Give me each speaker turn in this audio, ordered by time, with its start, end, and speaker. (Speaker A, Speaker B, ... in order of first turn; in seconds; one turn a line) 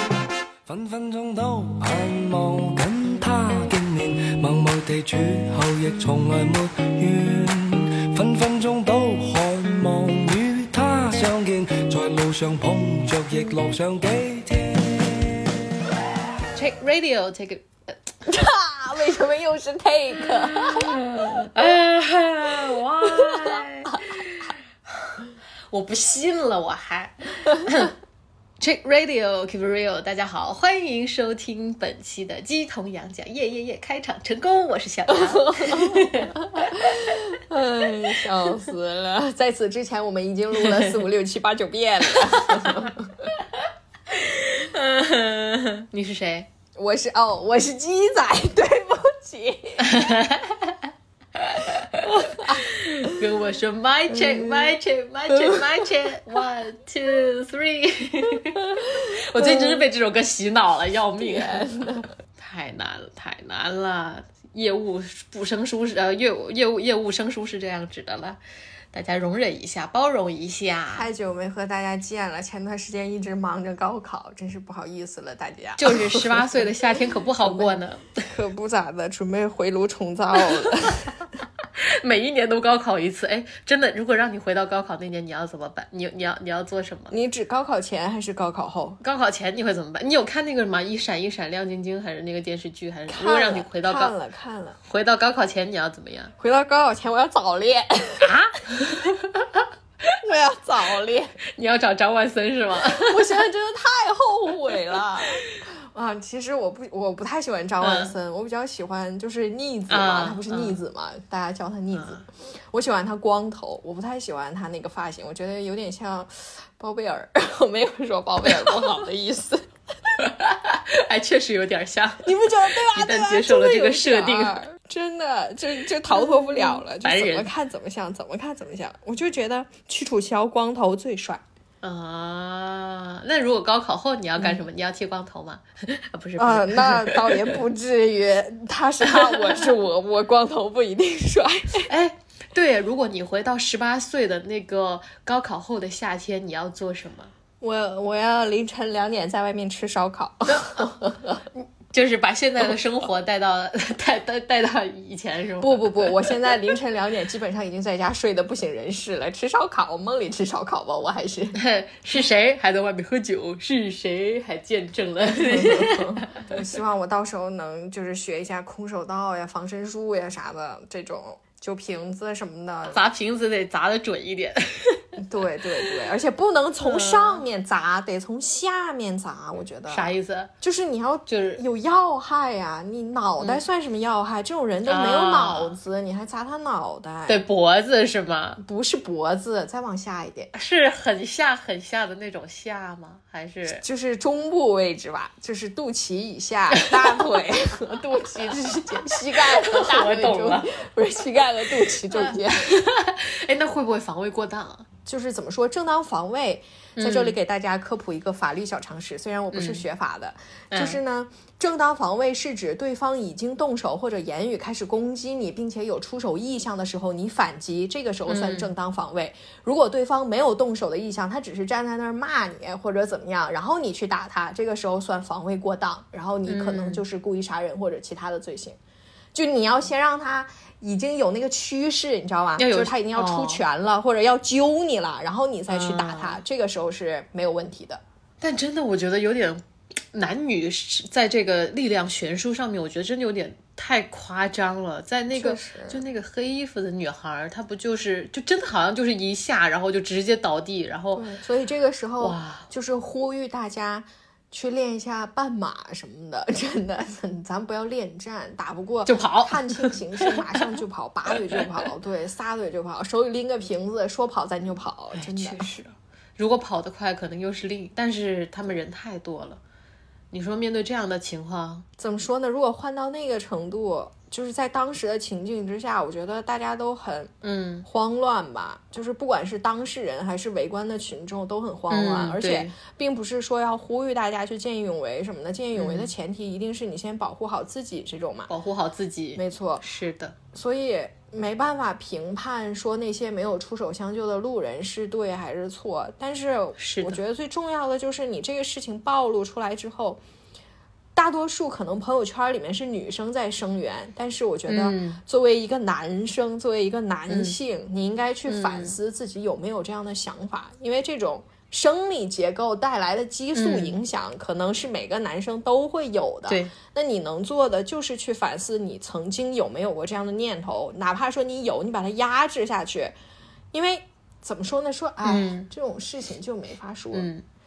Speaker A: 0.7-15.4
Speaker B: 16.5-17.9
Speaker C: 18.2-20.9
Speaker B: 20.2-27.9
Speaker C: 23.0-24.2
Speaker B: 28.6-37.2
Speaker C: 35.1-43.3
Speaker B: 42.4-42.8
Speaker B: 44.1-46.5
Speaker C: 46.8-50.1
Speaker B: 49.8-68.4
Speaker C: 52.2-53.2
Speaker C: 54.1-54.8
Speaker C: 55.3-55.6
Speaker C: 59.4-59.8
Speaker C: 61.2-62.1
Speaker B: 68.9-71.1
Speaker C: 70.9-76.7
Speaker B: 75.8-78.3
Speaker C: 77.4-81.1
Speaker B: 80.5-81.0
Speaker B: 81.8-87.1
Speaker C: 87.1-89.0
Speaker B: 89.0-94.1
Speaker C: 93.1-94.8
Speaker B: 94.9-96.3
Speaker C: 96.4-98.9
Speaker B: 98.2-99.6
Speaker C: 100.2-101.3
Speaker B: 101.5-103.4
Speaker C: 102.8-119.7
Speaker B: 107.8-108.1
Speaker B: 109.9-110.8
Speaker B: 111.9-112.2
Speaker B: 118.6-118.8
Speaker B: 120.2-124.6
Speaker C: 122.2-131.4
Speaker B: 126.1-127.5
Speaker B: 131.8-137.6
Speaker C: 136.4-141.9
Speaker B: 139.1-139.5
Speaker B: 141.9-147.3
Speaker C: 147.6-151.4
Speaker B: 150.5-150.8
Speaker B: 151.5-156.3
Speaker C: 155.6-161.6
Speaker B: 161.5-166.4
Speaker C: 165.3-173.0
Speaker B: 172.9-175.0
Speaker C: 175.2-180.1
Speaker B: 176.8-177.4
Speaker B: 179.9-180.5
Speaker C: 180.6-187.4
Speaker B: 181.3-181.6
Speaker B: 184.8-185.8
Speaker B: 187.3-188.6
Speaker C: 188.6-190.5
Speaker B: 190.5-193.8
Speaker C: 193.8-202.7
Speaker B: 198.9-200.7
Speaker B: 202.1-204.9
Speaker C: 205.1-228.8
Speaker B: 206.9-207.3
Speaker B: 209.5-209.8
Speaker B: 210.7-211.0
Speaker B: 218.3-218.7
Speaker B: 226.4-227.0
Speaker C: 229.3-238.0
Speaker B: 232.6-233.6
Speaker B: 235.7-236.4
Speaker B: 238.4-251.2
Speaker C: 245.3-246.0
Speaker C: 251.1-265.8
Speaker B: 252.2-252.7
Speaker B: 259.1-260.7
Speaker B: 261.3-261.6
Speaker B: 265.1-269.6
Speaker B: 270.3-271.8
Speaker C: 272.0-277.3
Speaker B: 277.4-277.9
Speaker C: 277.9-288.5
Speaker B: 281.9-282.7
Speaker B: 285.7-286.1
Speaker B: 288.5-290.4
Speaker C: 289.4-289.8
Speaker C: 290.5-300.2
Speaker B: 296.8-297.2
Speaker C: 301.1-323.1
Speaker B: 304.7-305.2
Speaker B: 307.3-307.5
Speaker B: 308.5-308.9
Speaker B: 313.5-314.0
Speaker C: 323.7-327.3
Speaker B: 325.2-325.7
Speaker B: 327.1-327.4